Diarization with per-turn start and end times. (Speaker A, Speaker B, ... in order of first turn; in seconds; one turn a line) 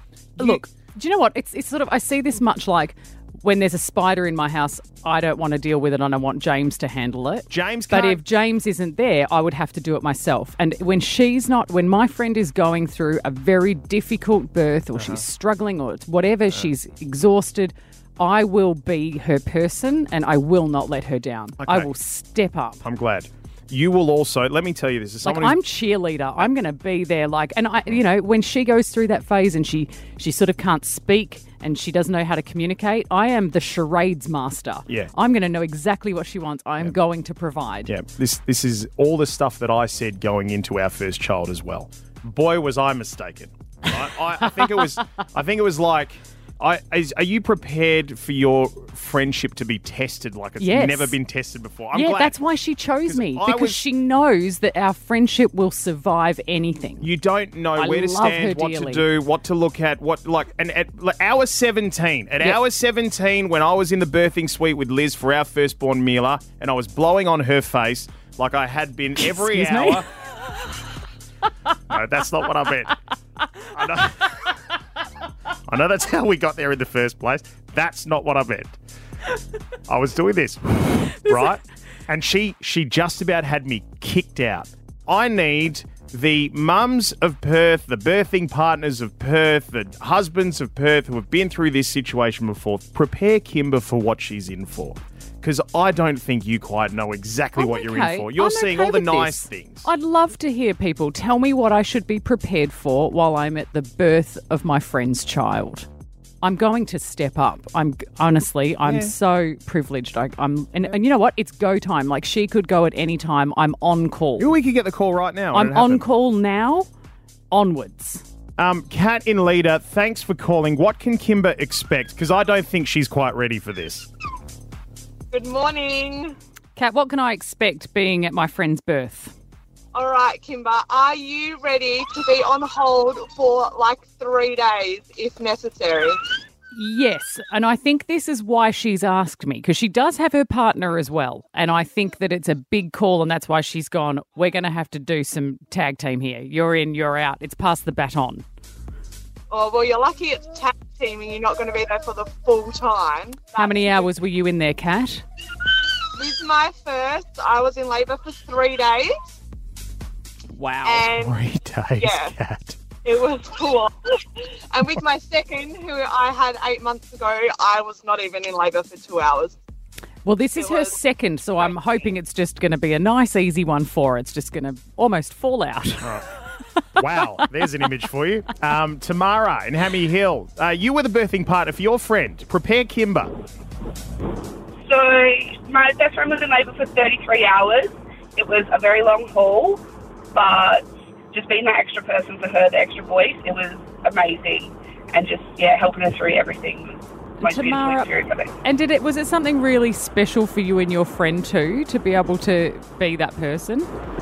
Speaker A: 0.4-22.8
Speaker B: 7.5-8.2
Speaker B: 14.9-15.2
Speaker B: 21.6-21.9
Speaker B: 22.8-25.6
Speaker A: 25.2-37.9
Speaker B: 37.9-52.3
Speaker A: 44.4-45.0
Speaker A: 50.6-51.1
Speaker A: 51.9-57.0
Speaker B: 53.0-53.8
Speaker B: 57.0-70.1
Speaker A: 57.8-59.0
Speaker A: 69.2-70.0
Speaker B: 71.9-72.9
Speaker B: 73.7-74.5
Speaker B: 75.7-78.8
Speaker B: 79.9-99.8
Speaker A: 81.2-81.6
Speaker A: 97.6-105.9
Speaker A: 106.4-114.5
Speaker B: 108.8-109.1
Speaker B: 114.4-116.0
Speaker A: 115.5-116.9
Speaker A: 117.5-118.2
Speaker B: 118.6-124.1
Speaker C: 125.3-126.3
Speaker A: 126.8-129.3
Speaker C: 129.9-136.1
Speaker A: 136.7-148.4
Speaker C: 149.5-154.0
Speaker A: 153.5-155.2
Speaker C: 156.2-159.0
Speaker A: 160.5-161.1
Speaker C: 160.9-161.3
Speaker B: 161.1-162.8
Speaker C: 163.1-163.8
Speaker C: 164.7-169.5
Speaker A: 170.2-176.1
Speaker C: 170.6-170.9
Speaker B: 177.0-183.3
Speaker D: 184.8-189.8
Speaker D: 190.3-198.5
Speaker A: 197.4-198.1
Speaker A: 198.6-203.9